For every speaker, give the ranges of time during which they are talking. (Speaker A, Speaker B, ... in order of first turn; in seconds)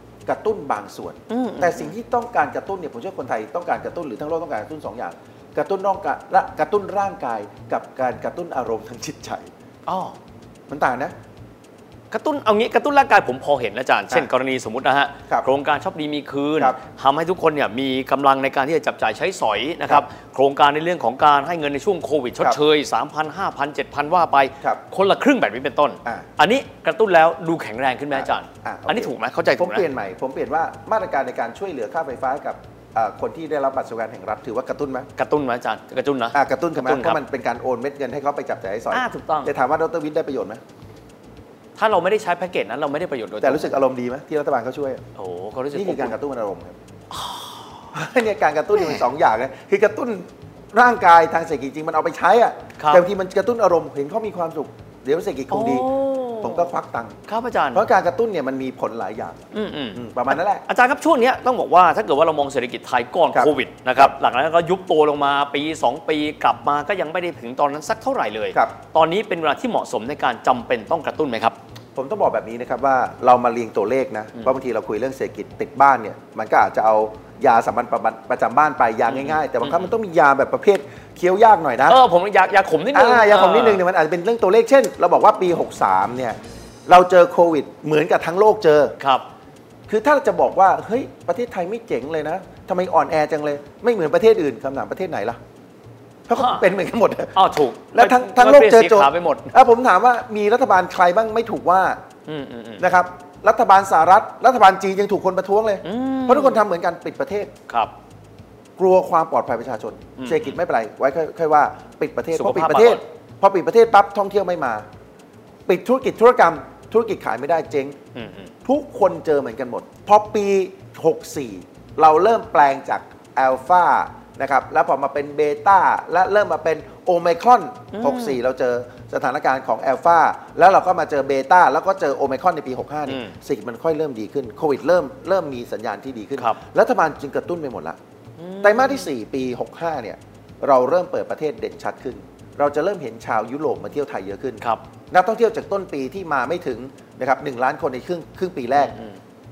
Speaker A: 0.2-9.5, 10.7-11.1, 28.1-35.1, 36.3-40.6, 43.4-45.0, 45.7-46.8, 47.9-55.9, 56.4-57.2, 57.7-59.4, 59.9-60.6, 63.3-64.1, 71.9-82.0, 82.9-88.9, 89.9-95.4, 96.3-102.0, 102.8-107.5, 108.8-114.8, 115.7-118.0, 118.6-138.0, 138.6-149.0
Speaker B: 1.3-1.9, 9.8-10.2, 12.1-29.8, 35.1-37.2, 38.9-39.5, 41.8-43.8, 45.1-46.2, 47.1-47.7, 48.7-49.1, 52.8-53.0, 55.5-56.7, 57.3-57.9, 59.5-71.6, 79.1-79.9, 81.8-83.8, 89.0-89.2, 96.3-96.7, 97.3-99.5, 102.3-102.8, 105.8-106.6, 107.7-107.9, 110.2-110.6, 112.3-113.0, 118.1-118.5, 127.9-128.4, 133.1-133.3, 138.4-139.1, 148.7-149.2